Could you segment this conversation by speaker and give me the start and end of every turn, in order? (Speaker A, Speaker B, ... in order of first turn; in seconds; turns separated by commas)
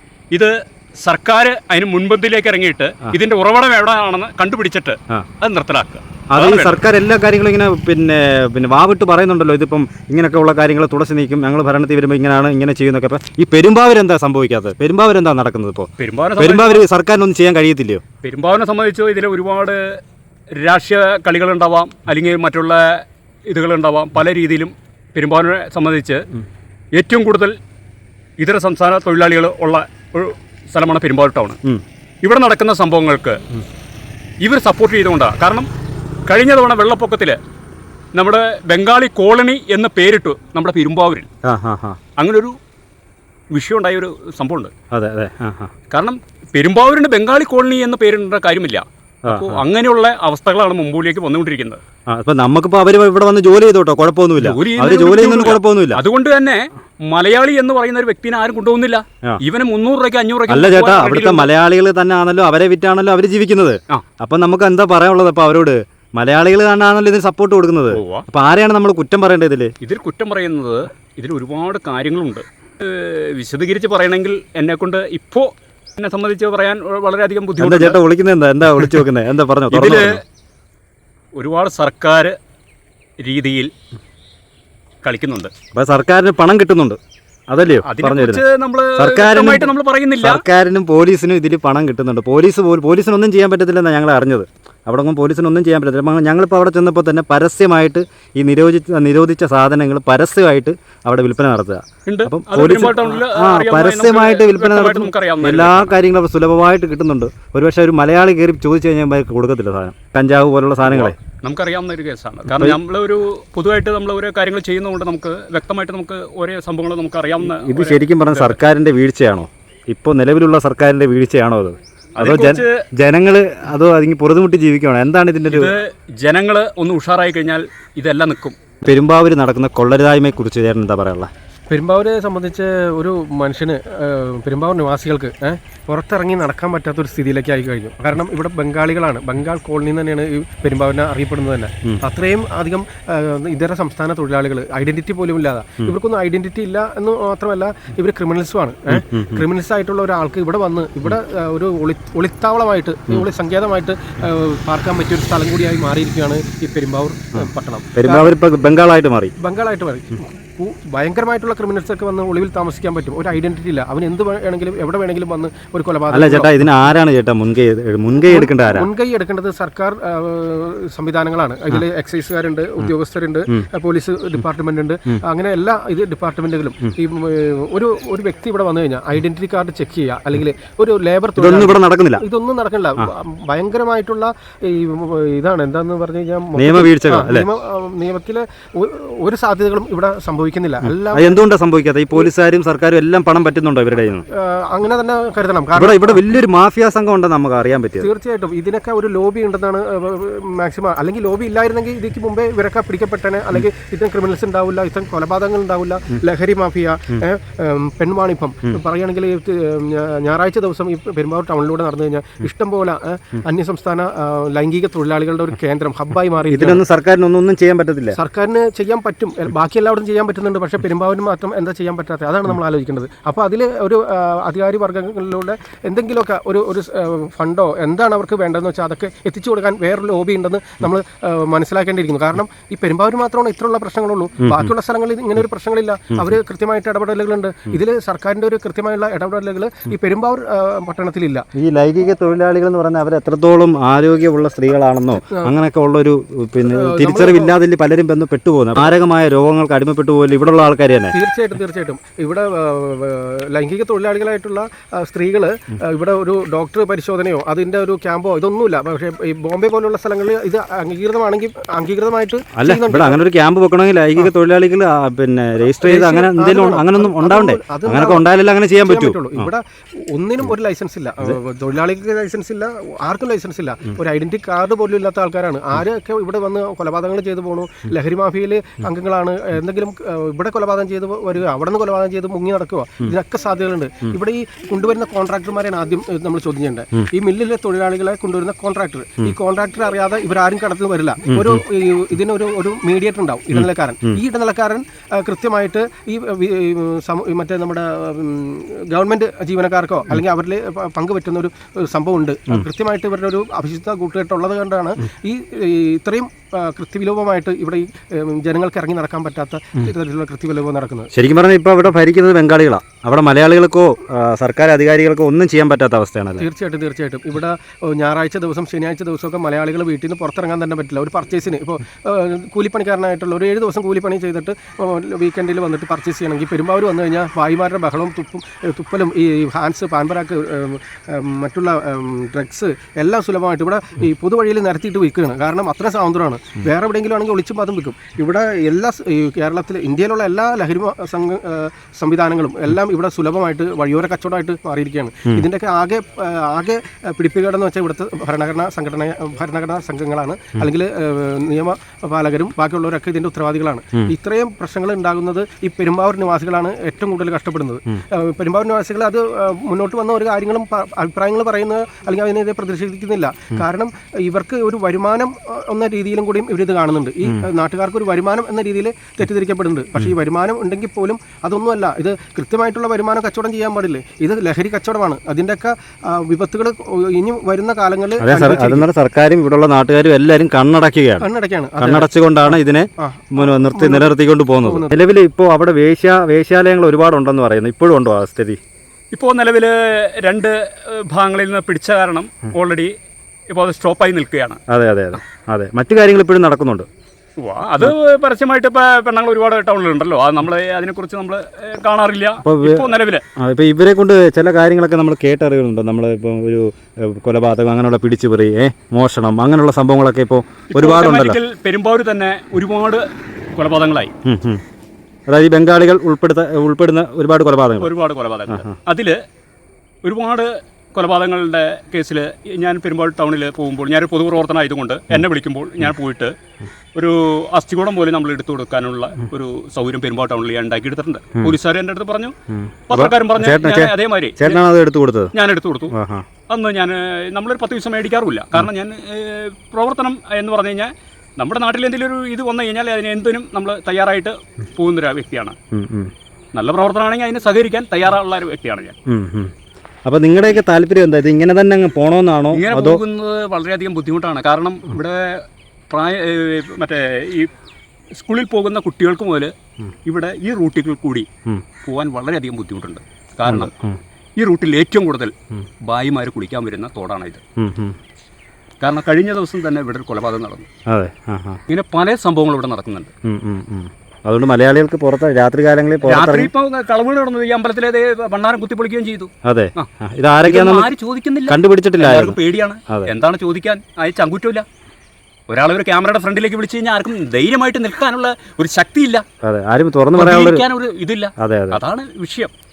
Speaker A: 0.3-6.8, Speaker B: 6.3-18.0, Speaker A: 16.0-16.9, Speaker A: 18.2-20.0, Speaker A: 20.5-26.3, Speaker A: 26.9-27.6, Speaker A: 28.4-31.6, Speaker A: 32.2-33.4, Speaker A: 34.4-35.7, Speaker A: 36.3-37.4, Speaker A: 38.1-41.3, Speaker B: 41.4-42.0, Speaker A: 42.2-42.5, Speaker A: 43.5-44.7, Speaker B: 44.9-45.7, Speaker A: 45.9-51.8, Speaker B: 49.2-49.6, Speaker B: 52.1-56.0, Speaker A: 54.4-61.5, Speaker B: 60.5-69.7, Speaker A: 67.9-68.2, Speaker A: 69.8-78.0, Speaker B: 77.6-80.2, Speaker A: 79.7-80.2, Speaker A: 81.3-82.3, Speaker A: 83.2-83.7, Speaker A: 85.0-85.5, Speaker B: 85.7-88.4, Speaker A: 87.8-90.4, Speaker B: 89.0-111.1, Speaker A: 102.0-106.0, Speaker A: 110.9-118.6, Speaker B: 112.5-112.8, Speaker B: 117.4-125.7, Speaker A: 122.2-122.8, Speaker A: 125.5-128.6, Speaker B: 128.8-131.3, Speaker C: 131.7-158.3, Speaker B: 148.9-149.4, Speaker B: 157.3-159.3, Speaker C: 159.4-166.6, Speaker B: 166.1-168.9, Speaker C: 168.2-191.4, Speaker B: 181.3-182.2, Speaker B: 186.6-187.5, Speaker B: 190.8-194.2, Speaker C: 194.3-196.2, Speaker B: 195.7-198.1, Speaker C: 198.0-216.8, Speaker B: 216.5-218.2, Speaker C: 218.1-241.4, Speaker B: 234.4-234.7, Speaker B: 241.5-251.1, Speaker C: 246.7-247.5, Speaker C: 251.1-263.2, Speaker B: 262.6-269.5, Speaker C: 265.8-268.2, Speaker C: 268.8-311.1, Speaker B: 291.3-291.6, Speaker B: 293.5-294.1, Speaker B: 311.1-316.4, Speaker C: 316.4-378.9, Speaker B: 378.2-381.3, Speaker C: 381.2-385.0, Speaker B: 381.8-388.6, Speaker A: 389.1-392.9, Speaker A: 393.5-394.6, Speaker B: 394.7-396.9, Speaker A: 397.4-403.2, Speaker B: 402.4-411.4, Speaker A: 410.7-413.0, Speaker A: 413.6-414.1, Speaker B: 414.2-414.6, Speaker B: 415.3-417.9, Speaker A: 417.8-419.2, Speaker B: 418.5-418.7, Speaker A: 420.0-426.3, Speaker A: 426.9-432.3, Speaker B: 432.5-435.3, Speaker A: 432.9-434.6, Speaker A: 435.3-435.9, Speaker B: 435.9-436.2, Speaker A: 436.5-445.6, Speaker B: 445.7-446.1, Speaker A: 446.5-448.9, Speaker B: 449.1-449.5, Speaker B: 450.0-453.0, Speaker A: 452.5-457.5, Speaker A: 458.1-459.5, Speaker A: 460.0-461.3, Speaker A: 461.8-463.7, Speaker B: 463.4-464.0, Speaker A: 464.4-465.3, Speaker A: 465.8-467.4, Speaker B: 467.6-467.9, Speaker A: 468.8-470.7, Speaker B: 470.9-471.6, Speaker A: 471.7-473.1, Speaker B: 473.2-476.5, Speaker A: 476.0-479.9, Speaker B: 479.4-480.9, Speaker A: 480.4-484.6, Speaker B: 481.5-482.4, Speaker A: 485.5-489.2, Speaker B: 489.4-490.6, Speaker A: 490.1-492.5, Speaker B: 491.4-491.8